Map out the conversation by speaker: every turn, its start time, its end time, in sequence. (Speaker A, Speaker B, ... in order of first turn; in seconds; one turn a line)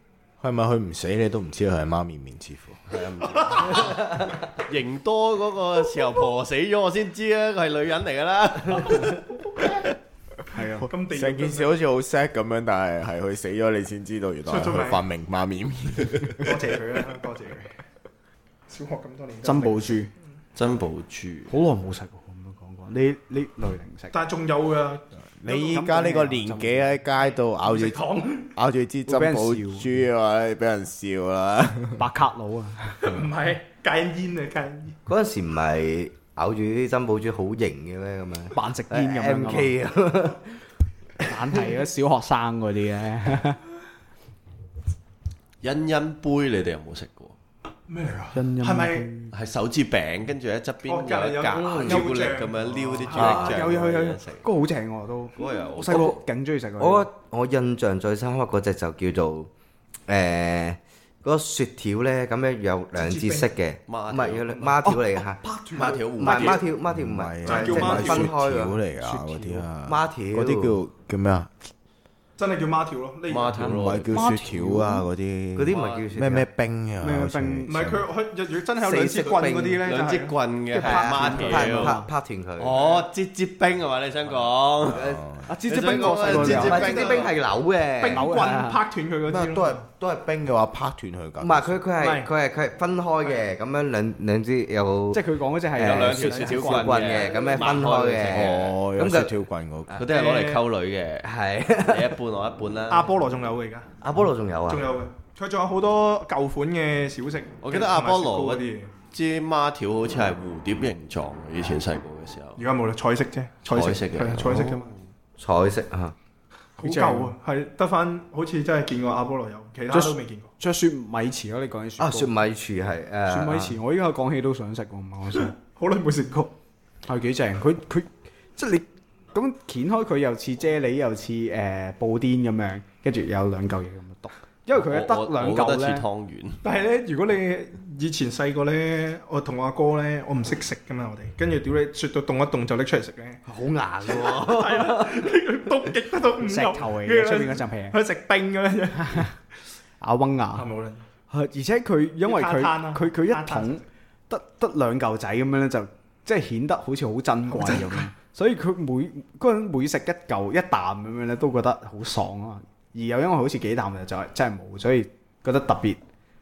Speaker A: 0.4-3.0
Speaker B: 2.9-9.8
Speaker C: 3.4-3.8
Speaker D: 10.5-10.9
Speaker C: 10.9-11.7
Speaker A: 11.0-16.7
Speaker C: 14.5-15.0
Speaker C: 16.4-17.8
Speaker C: 18.7-20.0
Speaker D: 19.4-20.1
Speaker B: 20.5-21.5
Speaker D: 21.5-24.1
Speaker C: 24.1-25.0
Speaker A: 25.4-32.0
Speaker D: 25.5-27.0
Speaker C: 27.6-28.5
Speaker D: 29.1-30.0
Speaker D: 32.0-33.1
Speaker C: 33.0-35.0
Speaker E: 35.0-40.5
Speaker D: 38.5-39.8
Speaker D: 41.2-43.6
Speaker B: 45.6-47.3
Speaker C: 47.9-49.1
Speaker D: 48.3-49.3
Speaker B: 49.3-54.4
Speaker C: 50.9-53.6
Speaker E: 51.6-52.0
Speaker D: 53.1-57.1
Speaker B: 55.4-56.1
Speaker E: 55.9-56.1
Speaker E: 56.8-59.5
Speaker E: 60.1-68.8
Speaker C: 63.0-63.5
Speaker B: 63.9-64.8
Speaker D: 64.9-66.5
Speaker B: 65.7-66.7
Speaker C: 65.9-66.5
Speaker A: 66.9-71.5
Speaker C: 67.4-68.3
Speaker D: 67.8-68.0
Speaker D: 69.0-69.7
Speaker E: 69.8-70.8
Speaker C: 72.4-73.7
Speaker B: 73.3-74.1
Speaker A: 73.6-78.0
Speaker D: 74.1-75.0
Speaker E: 75.5-76.5
Speaker B: 75.7-76.1
Speaker D: 77.0-77.8
Speaker C: 77.7-80.3
Speaker E: 78.8-79.8
Speaker B: 79.8-82.0
Speaker E: 80.7-82.8
Speaker D: 80.8-82.0
Speaker C: 80.9-81.7
Speaker B: 82.6-87.3
Speaker C: 82.8-83.0
Speaker E: 84.9-85.2
Speaker A: 85.0-85.4
Speaker D: 85.5-87.0
Speaker E: 85.8-88.3
Speaker C: 86.3-87.3
Speaker C: 88.0-89.8
Speaker D: 88.1-88.8
Speaker A: 89.2-91.8
Speaker E: 91.4-95.2
Speaker C: 92.0-92.3
Speaker D: 95.1-97.3
Speaker E: 95.7-99.3
Speaker B: 95.8-98.7
Speaker A: 98.3-100.0
Speaker B: 100.0-103.1
Speaker C: 100.0-100.7
Speaker E: 101.2-102.1
Speaker C: 102.9-103.9
Speaker E: 104.0-104.9
Speaker C: 104.7-108.9
Speaker B: 107.6-112.6
Speaker C: 112.6-114.9
Speaker B: 113.7-115.0
Speaker E: 115.4-116.1
Speaker C: 116.8-120.5
Speaker D: 116.8-117.3
Speaker D: 119.9-122.3
Speaker E: 122.0-123.8
Speaker D: 123.3-125.5
Speaker C: 125.5-126.5
Speaker D: 127.1-136.1
Speaker B: 134.7-136.6
Speaker C: 136.6-143.4
Speaker E: 143.4-145.2
Speaker C: 144.1-149.3
Speaker D: 146.4-148.0
Speaker D: 149.0-149.3
Speaker D: 150.0-150.7
Speaker C: 150.5-151.0
Speaker D: 151.3-166.0
Speaker C: 152.2-153.8
Speaker C: 157.5-158.0